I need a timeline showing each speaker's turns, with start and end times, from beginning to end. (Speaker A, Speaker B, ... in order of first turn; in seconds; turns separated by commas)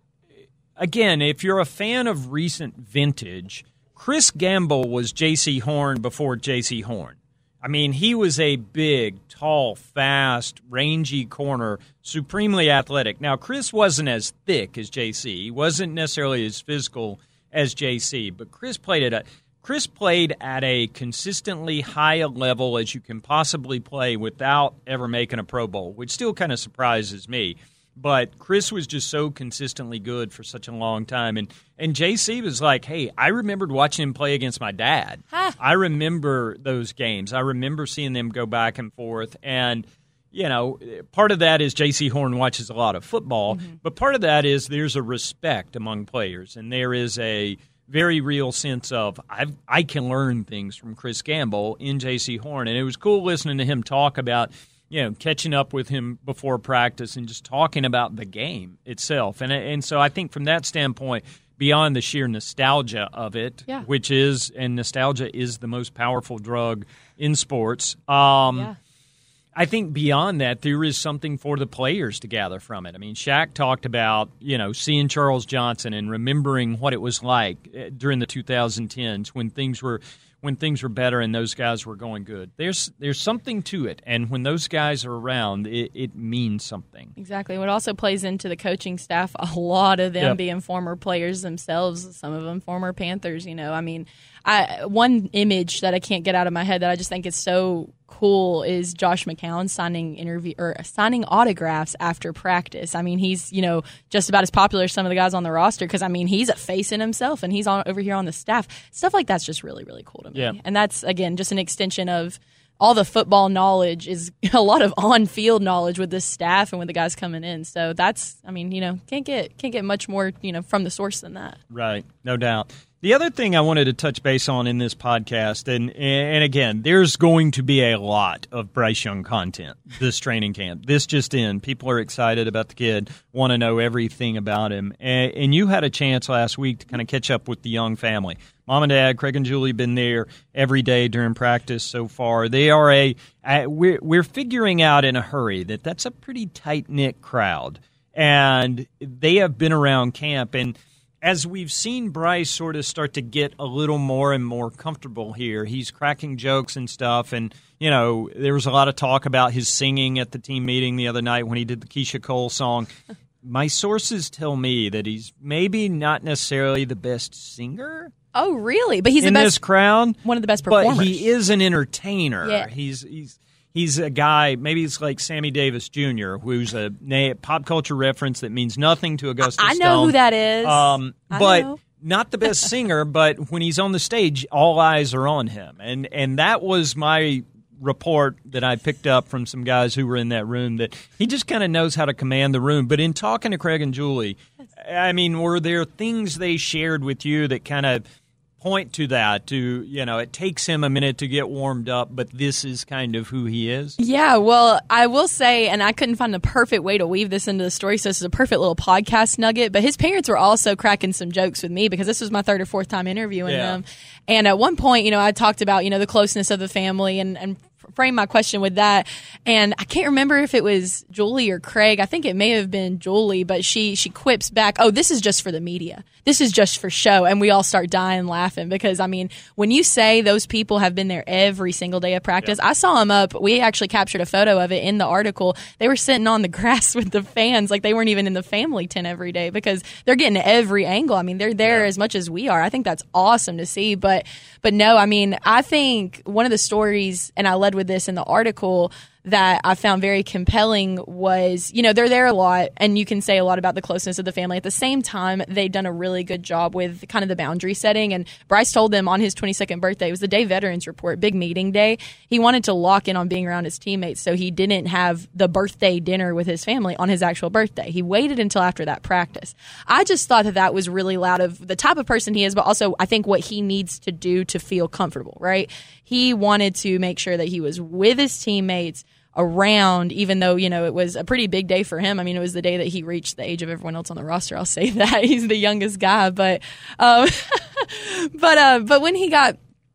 Speaker A: 0.8-68.7, Speaker A: 69.5-87.1, Speaker B: 87.2-121.6, Speaker A: 121.7-162.9, Speaker A: 163.4-168.1, Speaker B: 168.3-169.6, Speaker A: 169.2-170.2, Speaker B: 170.2-171.3, Speaker A: 170.7-198.0, Speaker B: 172.4-172.7, Speaker B: 179.6-181.8, Speaker A: 198.6-204.0, Speaker B: 204.0-289.6, Speaker A: 213.4-213.8